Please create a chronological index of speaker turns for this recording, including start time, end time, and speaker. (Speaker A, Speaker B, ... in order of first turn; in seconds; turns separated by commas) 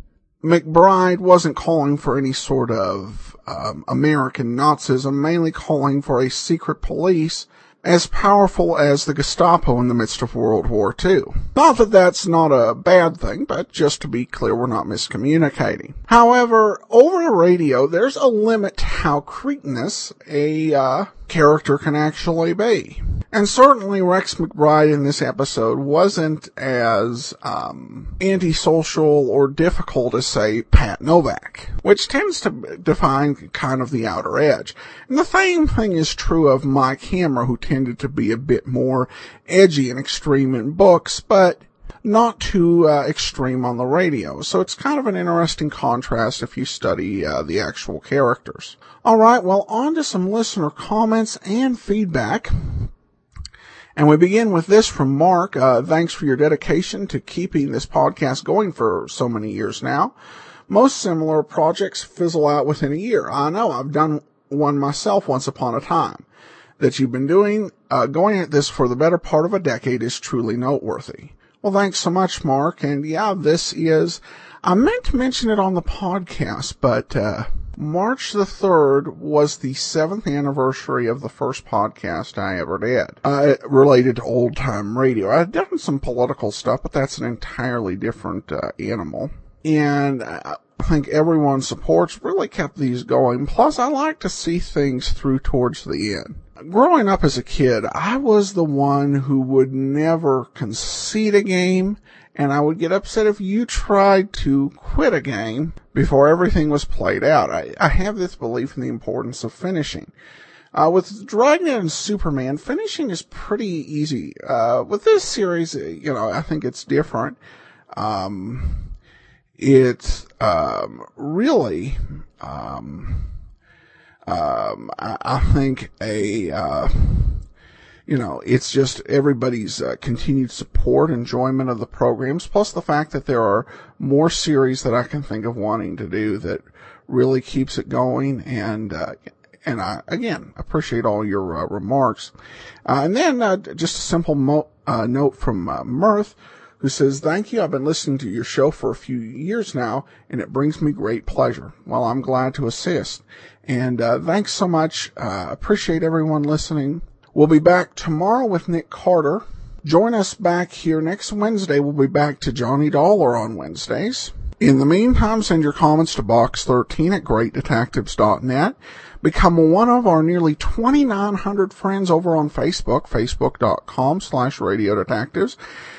Speaker A: 0.4-52.9, Speaker A: 54.0-60.1, Speaker A: 60.7-66.2, Speaker A: 66.8-110.1, Speaker A: 110.7-117.4, Speaker A: 117.9-118.9, Speaker A: 119.6-123.3, Speaker A: 124.3-127.4, Speaker A: 128.1-142.3, Speaker A: 142.9-175.6